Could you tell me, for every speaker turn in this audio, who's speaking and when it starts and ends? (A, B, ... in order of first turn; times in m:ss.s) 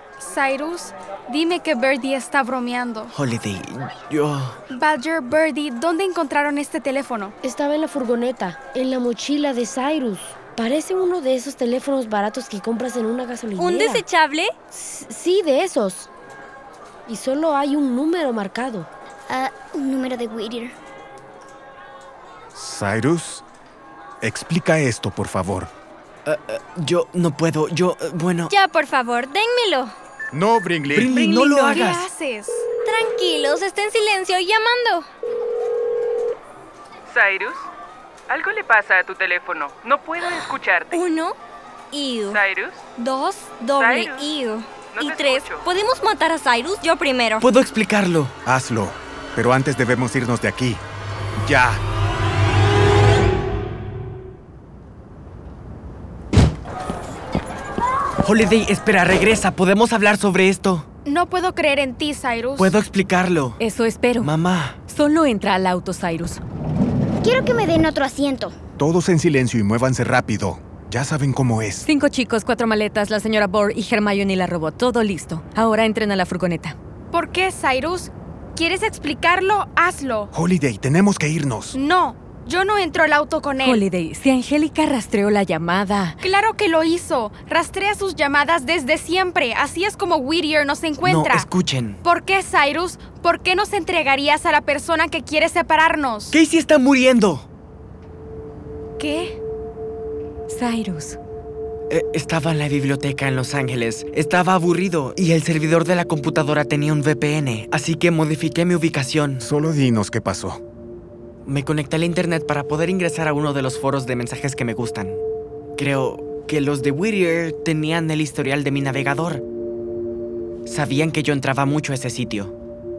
0:00.2-0:03.1 A
0:03.1-0:04.6 B
0:04.7-0:07.3 A
0:07.4-0:14.0 C
0:13.6-0:14.5 D
0:14.7-0:16.1 C
0:17.1-0:18.9 C
0:19.3-0:20.7 E
0:22.6-0:23.4 F
0:24.2-0:25.7 F
0:26.2-0:28.5 B
0:28.5-0:29.9 D
0:30.3-0:31.2 F
0:30.9-0:32.1 B
0:31.1-0:32.7 A
0:32.8-0:35.1 D
0:37.1-0:37.7 G
0:38.3-0:41.0 G
0:40.9-0:41.4 D
0:41.9-0:42.4 D
0:42.3-0:42.8 G
0:43.0-0:47.4 D
0:43.8-0:44.3 G
0:44.8-0:45.6 G
0:47.4-0:48.4 B
0:48.4-0:50.8 F
0:51.4-0:51.8 F
0:58.2-1:00.9 B
1:01.1-1:02.8 A
1:02.6-1:03.6 B
1:03.6-1:04.3 H
1:04.2-1:04.8 B
1:04.9-1:06.4 H
1:07.2-1:08.6 E
1:08.8-1:11.9 F
1:11.8-1:16.8 H
1:17.1-1:20.3 A
1:20.3-1:21.8 F
1:21.8-1:23.8 A
1:23.6-1:26.2 H
1:26.2-1:31.5 A
1:31.0-1:32.0 B
1:32.0-1:36.4 A
1:36.3-1:37.5 B
1:39.0-1:39.4 A
1:40.5-1:41.2 H
1:41.9-1:49.5 B
1:49.4-1:50.6 F
1:51.5-1:55.2 B
1:55.8-1:59.4 B
2:00.7-2:02.5 B